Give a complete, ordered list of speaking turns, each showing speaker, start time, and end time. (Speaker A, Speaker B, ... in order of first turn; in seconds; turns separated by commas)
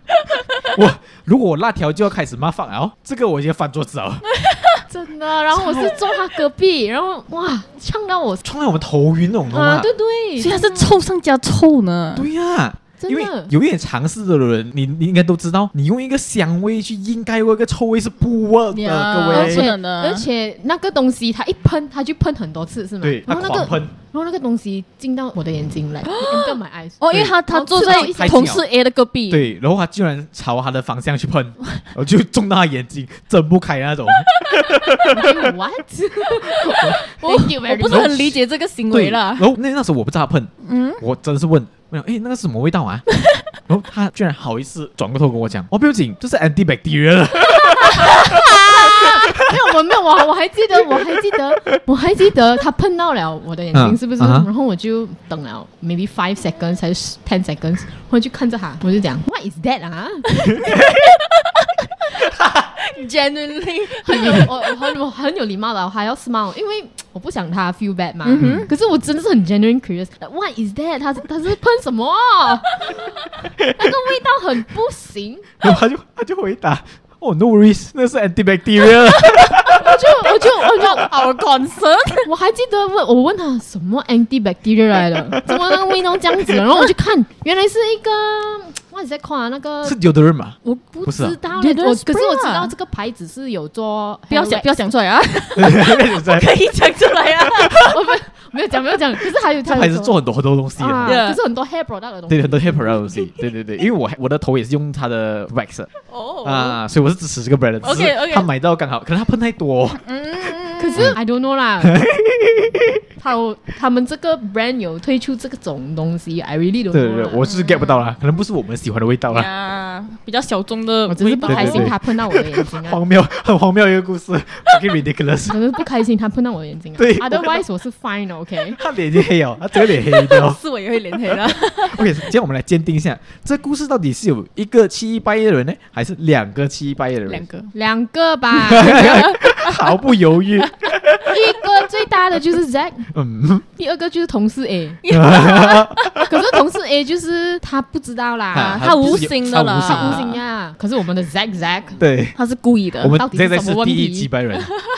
Speaker A: 0.4-0.7, Speaker B: 0.7-4.3, Speaker A: 4.4-4.8, Speaker C: 4.9-8.4, Speaker B: 5.5-6.0, Speaker B: 8.4-9.9, Speaker C: 9.5-10.9, Speaker A: 10.4-12.3, Speaker B: 12.2-19.7, Speaker C: 13.0-13.5, Speaker A: 18.7-20.3, Speaker C: 19.3-28.5, Speaker B: 23.0-23.9, Speaker A: 26.0-29.4, Speaker B: 27.1-28.6, Speaker B: 29.3-35.5, Speaker C: 35.0-38.3, Speaker B: 36.6-37.0, Speaker A: 37.0-39.5, Speaker B: 37.9-38.4, Speaker B: 38.9-43.1, Speaker A: 40.6-41.0, Speaker B: 43.7-49.5, Speaker C: 47.8-60.8, Speaker B: 53.7-54.5, Speaker B: 60.5-61.1, Speaker A: 61.4-62.2, Speaker B: 62.2-62.7, Speaker A: 62.8-64.9, Speaker C: 64.0-75.5, Speaker B: 64.2-64.5, Speaker A: 68.2-68.7, Speaker B: 68.4-68.7, Speaker B: 75.6-79.9, Speaker A: 79.0-82.3, Speaker C: 79.7-81.2, Speaker C: 82.2-90.1, Speaker B: 89.8-91.4, Speaker C: 90.6-94.8, Speaker A: 91.5-92.7, Speaker A: 94.3-97.8, Speaker B: 95.6-96.5, Speaker B: 97.5-98.0, Speaker C: 97.8-100.2, Speaker B: 99.6-101.2, Speaker C: 100.8-103.0, Speaker A: 101.0-101.4, Speaker B: 102.3-105.9, Speaker A: 106.1-106.8, Speaker B: 106.4-110.0, Speaker A: 107.8-108.5, Speaker A: 110.0-111.2, Speaker C: 110.8-112.0, Speaker B: 111.8-113.0, Speaker C: 113.2-117.4, Speaker B: 116.9-119.5, Speaker A: 117.4-118.0, Speaker A: 119.3-122.0, Speaker C: 121.1-123.0, Speaker B: 121.4-125.6, Speaker C: 125.5-128.8, Speaker B: 127.0-127.7, Speaker B: 128.8-130.6, Speaker A: 129.9-132.1, Speaker B: 131.9-137.4, Speaker A: 137.3-137.7, Speaker C: 137.7-139.2, Speaker B: 138.6-141.3, Speaker A: 138.8-139.7, Speaker C: 141.3-143.1, Speaker B: 143.1-143.7, Speaker C: 143.8-145.0, Speaker A: 145.0-146.2, Speaker B: 145.1-146.3, Speaker C: 146.2-148.8, Speaker B: 148.5-150.3, Speaker A: 148.5-150.4, Speaker C: 149.8-152.0, Speaker B: 152.0-152.4, Speaker A: 152.4-153.2, Speaker B: 153.0-154.7, Speaker C: 153.1-154.3